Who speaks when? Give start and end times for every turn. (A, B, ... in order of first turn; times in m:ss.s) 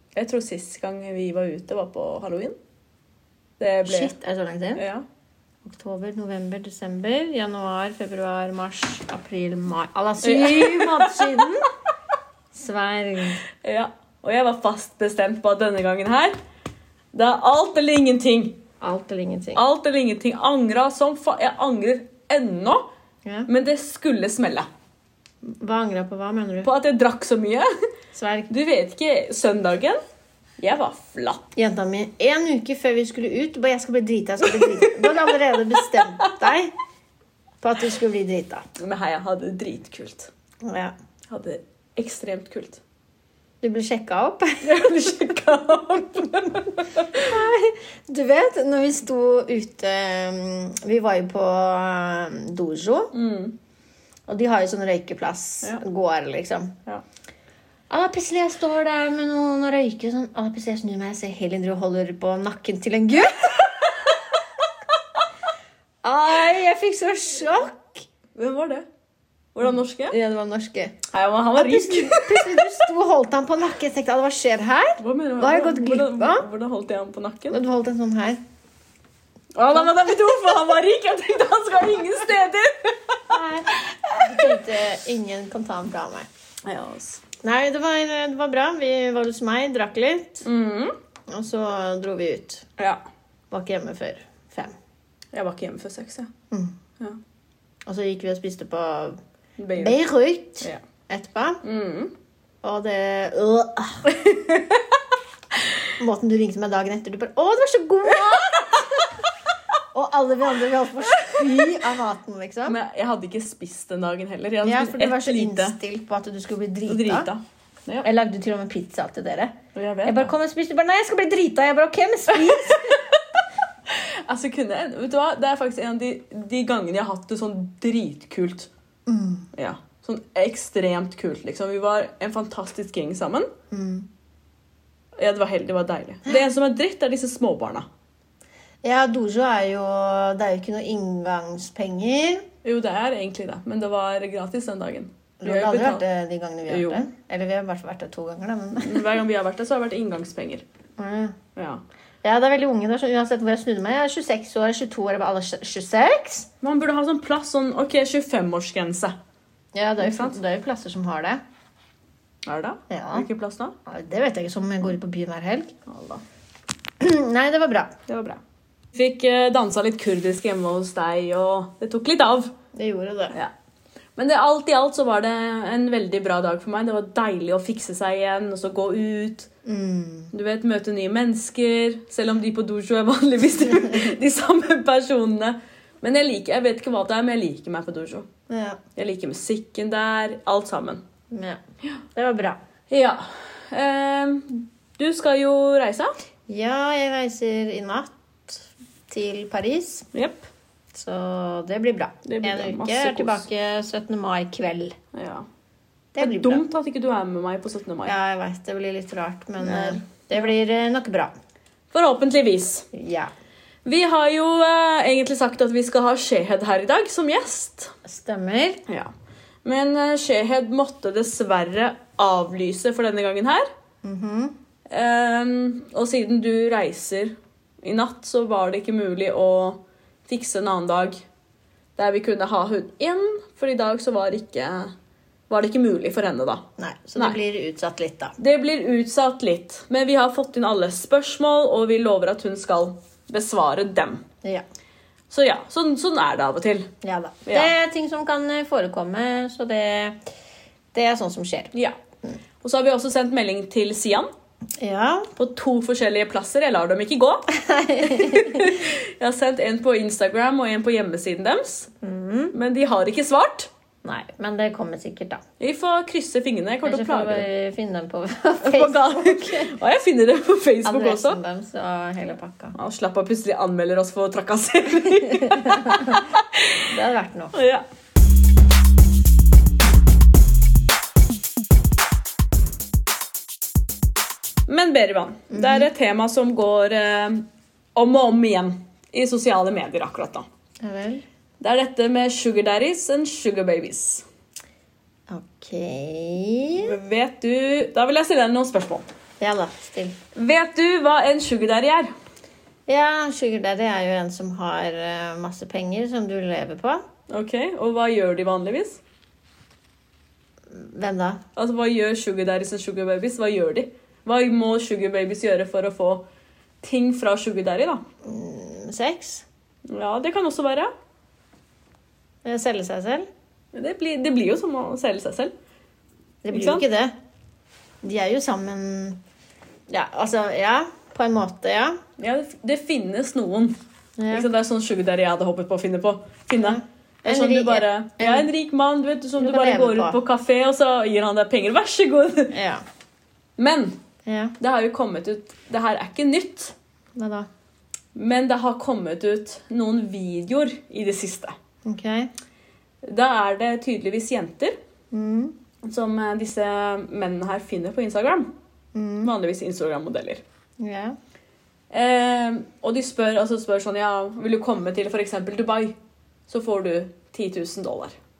0:00.2-0:02.6 A
0:03.6-0:04.1 A
0:03.9-0:04.8 B
0:04.8-0:05.0 A
0:05.6-0:11.7 B
0:10.2-0:11.4 A
0:12.5-0:13.4 B
0:13.6-0:16.3 A
0:17.1-0:18.6 A
0:18.8-0:19.6 B
0:19.6-0:22.8 A
0:23.5-0:24.7 A
0:25.4-0:26.7 B
0:26.6-0:27.7 A
0:28.1-0:28.5 B
0:28.5-0:30.0 A
0:30.6-0:31.4 A
0:31.6-0:36.7 B
0:34.6-0:35.1 A
0:36.0-0:36.3 A
0:37.6-0:38.6 B
0:38.8-0:40.3 A
0:40.6-0:40.9 B
0:41.3-0:42.8 A
0:43.6-0:45.0 B
0:44.6-0:47.1 A
0:47.2-0:53.1 B
0:53.1-0:53.6 A
0:54.3-0:56.7 B
0:57.9-1:03.7 B
1:06.0-1:08.0 B
1:08.4-1:08.8 A
1:09.6-1:10.2 A
1:10.1-1:11.0 B
1:11.1-1:12.8 A
1:11.6-1:16.5 B
1:15.0-1:17.6 A
1:17.5-1:18.4 B
1:19.6-1:23.2 A
1:23.3-1:26.3 B
1:23.8-1:24.6 A
1:26.6-1:27.2 A
1:27.4-1:30.4 B
1:30.4-1:30.9 A
1:31.3-1:32.7 B
1:33.5-1:34.7 B
1:35.3-1:36.3 A
1:37.9-1:39.2 B
1:39.6-1:40.0 A
1:39.8-1:41.6 B
1:41.6-1:42.1 A
1:42.6-1:44.0 B
1:44.2-1:44.8 A
1:46.0-1:48.9 B
1:49.9-1:52.8 B
1:52.7-1:55.8 A
1:54.6-1:57.3 B
1:56.9-1:58.1 A
1:58.0-1:59.5 B
1:59.8-2:00.3 A
2:00.0-2:03.0 B
2:03.9-2:08.7 A
2:09.1-2:09.5 B
2:09.5-2:13.5 A
2:13.7-2:14.1 B
2:15.2-2:17.9 A
2:18.8-2:22.4 B
2:22.6-2:26.0 A
2:25.4-2:29.2 B
2:26.7-2:27.1 A
2:28.8-2:30.6 A
2:31.0-2:31.3 B
2:31.6-2:31.8 A
2:32.2-2:36.5 B
2:36.6-2:39.1 A
2:39.7-2:41.4 B
2:40.0-2:40.4 A
2:42.4-2:43.7 A
2:42.9-2:43.3 B
2:43.9-2:45.7 B
2:45.9-2:46.2 A
2:47.0-2:47.9 B
2:48.1-2:48.4 A
2:48.9-2:52.5 A
2:52.8-2:53.4 B
2:54.2-2:59.5 A
2:59.7-3:00.3 B
3:00.3-3:08.3 A
3:08.5-3:08.8 B
3:09.0-3:11.0 A
3:11.3-3:11.6 B
3:12.2-3:12.6 B
3:12.9-3:16.2 A
3:16.5-3:20.1 B
3:20.1-3:20.5 A
3:20.9-3:25.0 B
3:22.2-3:23.4 A
3:25.1-3:25.5 A
3:26.2-3:26.6 B
3:26.2-3:28.2 A
3:28.1-3:31.3 B
3:29.6-3:30.5 A
3:31.9-3:32.9 A
3:32.9-3:33.3 B
3:33.8-3:37.9 A
3:38.1-3:38.8 B
3:39.6-3:43.7 A
3:44.0-3:44.5 B
3:44.9-3:51.2 A
3:52.0-3:54.9 A
3:55.5-3:56.6 A
3:56.8-3:58.4 B
3:58.4-4:04.2 A
4:05.3-4:06.9 A
4:07.0-4:10.2 B
4:07.4-4:07.7 A
4:10.9-4:11.7 B
4:12.6-4:14.3 A
4:14.8-4:15.3 B
4:15.4-4:17.5 A
4:17.5-4:18.8 B
4:18.1-4:21.9 A
4:22.0-4:22.5 B
4:22.5-4:23.7 A
4:24.0-4:25.4 B
4:25.6-4:27.5 A
4:26.8-4:29.8 B
4:28.6-4:31.4 A
4:30.8-4:32.8 B
4:32.8-4:36.8 A
4:35.2-4:36.2 B
4:36.9-4:37.5 B
4:37.5-4:37.8 A
4:44.7-4:50.5 A
4:45.5-4:45.9 B
4:50.8-4:51.2 B
4:51.6-4:54.2 A
4:55.3-4:57.0 B
4:56.8-4:59.1 A
4:59.4-5:00.2 B
5:00.4-5:02.1 A
5:02.9-5:07.0 B
5:07.3-5:09.0 A
5:10.7-5:11.4 B
5:11.6-5:16.2 A
5:16.8-5:18.0 A
5:18.2-5:19.4 B
5:19.9-5:20.9 A
5:22.4-5:23.3 B
5:23.7-5:25.5 A
5:26.4-5:27.1 B
5:26.5-5:26.8 A
5:28.0-5:29.2 B
5:29.9-5:32.0 B
5:32.2-5:33.7 A
5:34.2-5:34.5 B
5:34.3-5:42.6 A
5:36.6-5:38.5 B
5:39.4-5:40.2 B
5:42.5-5:42.8 B
5:43.6-5:43.9 A
5:44.3-5:44.6 B
5:44.6-5:46.8 A
5:47.2-5:47.5 B
5:48.2-5:51.6 A
5:51.8-5:52.3 B
5:53.0-5:54.8 A
5:55.1-5:55.6 B
5:55.8-5:58.5 A
5:58.9-5:59.3 B
5:59.2-6:00.4 A
6:00.8-6:01.2 B
6:01.9-6:05.9 A
6:06.5-6:08.2 A